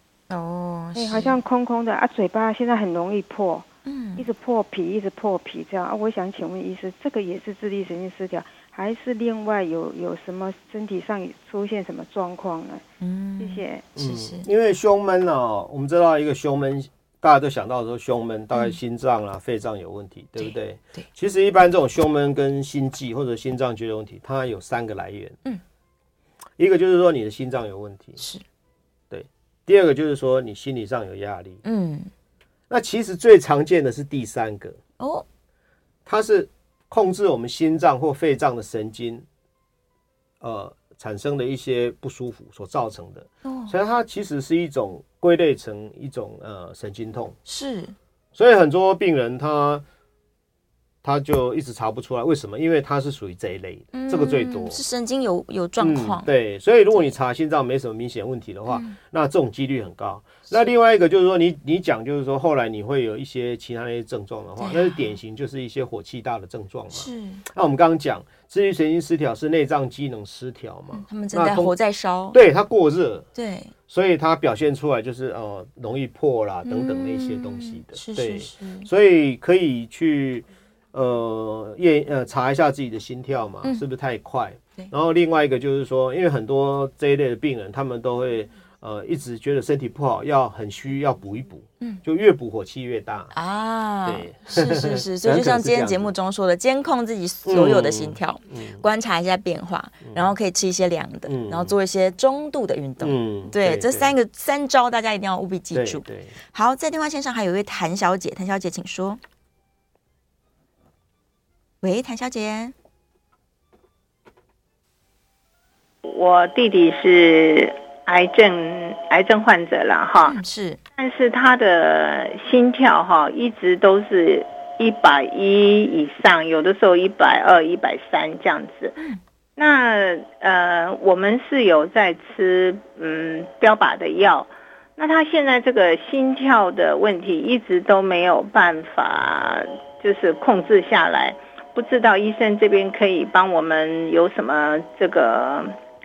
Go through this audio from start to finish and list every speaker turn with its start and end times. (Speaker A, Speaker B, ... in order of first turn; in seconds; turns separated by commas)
Speaker A: 0.3-1.4, Speaker B: 0.9-3.7, Speaker A: 3.9-4.3, Speaker B: 4.2-12.8, Speaker A: 13.0-14.5, Speaker B: 13.4-13.9, Speaker C: 14.0-25.4, Speaker A: 20.4-21.1, Speaker C: 26.6-28.2, Speaker C: 29.1-31.6, Speaker A: 31.6-32.1, Speaker C: 32.7-34.8, Speaker A: 35.0-35.2, Speaker C: 36.1-39.2, Speaker C: 40.4-47.4, Speaker A: 43.5-43.7, Speaker A: 47.5-48.0, Speaker C: 48.4-49.8, Speaker C: 51.0-54.8, Speaker A: 53.9-56.3, Speaker C: 55.8-71.7, Speaker A: 58.7-59.0, Speaker A: 64.6-65.1, Speaker A: 66.9-67.4, Speaker A: 70.9-72.4, Speaker C: 72.3-73.3, Speaker A: 73.3-73.7, Speaker C: 73.9-93.3, Speaker A: 76.7-78.9, Speaker A: 93.3-109.2, Speaker C: 94.0-96.1, Speaker C: 97.5-98.8, Speaker C: 100.0-100.3, Speaker C: 101.3-101.7, Speaker C: 103.0-104.2, Speaker C: 105.7-106.3, Speaker A: 111.8-112.7, Speaker D: 116.0-120.4, Speaker A: 120.2-120.8, Speaker D: 121.0-129.0, Speaker D: 129.6-145.7